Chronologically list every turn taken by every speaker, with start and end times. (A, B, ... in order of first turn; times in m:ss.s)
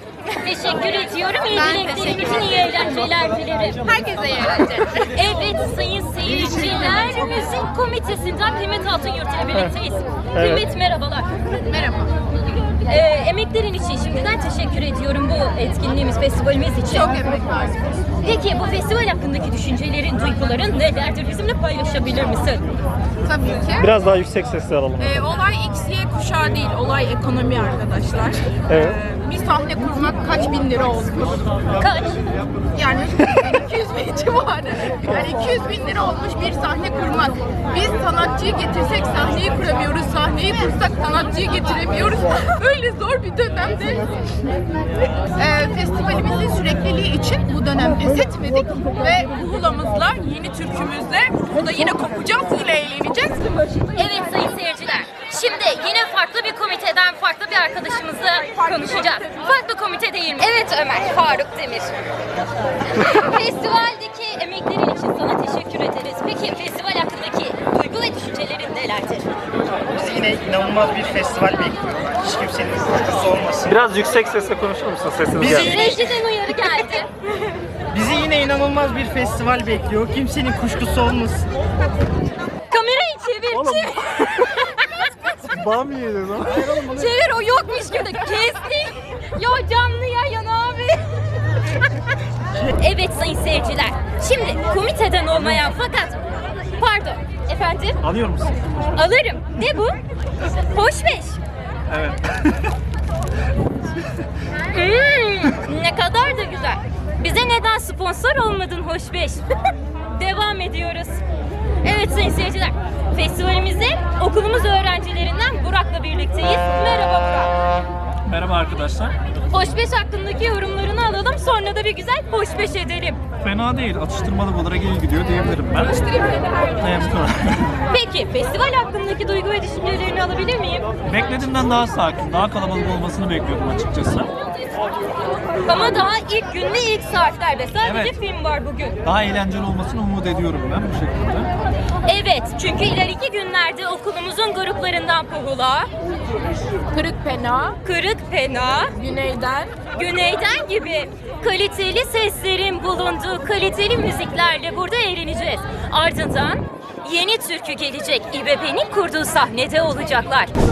0:00.4-0:03.8 A
0:01.5-0:02.4 B
0:03.9-0:04.9 B
0:04.5-0:04.8 C
0:05.0-0:11.3 A
0:10.3-0:10.6 D
0:11.7-0:12.1 C
0:12.8-0:17.3 A
0:16.9-0:17.8 C
0:18.2-0:22.6 A
0:23.2-0:23.8 C
0:23.7-0:25.2 D
0:25.0-0:31.5 C
0:28.7-0:29.0 D
0:31.8-0:32.2 A
0:32.7-0:44.1 C
0:45.4-0:53.5 C
0:53.9-1:01.9 A
0:58.6-0:59.2 C
1:02.9-1:09.3 A
1:09.9-1:13.8 E
1:13.6-1:15.8 D
1:15.4-1:15.7 E
1:15.6-1:17.1 A
1:17.9-1:21.4 E
1:22.7-1:24.8 A
1:23.5-1:24.5 D
1:25.4-1:26.8 D
1:26.8-1:31.0 A
1:32.7-1:38.0 A
1:35.3-1:35.7 D
1:38.0-1:38.8 D
1:38.9-1:39.9 A
1:40.7-1:41.4 A
1:41.9-1:42.3 D
1:44.7-1:49.4 A
1:50.1-1:51.2 A
1:51.8-1:57.5 A
1:58.2-1:59.1 D
1:59.5-2:03.2 A
2:03.4-2:07.7 D
2:07.9-2:10.9 A
2:11.0-2:14.3 D
2:15.6-2:19.0 A
2:17.8-2:18.1 D
2:19.0-2:21.5 D
2:22.0-2:25.9 A
2:27.8-2:28.9 A
2:29.9-2:40.5 A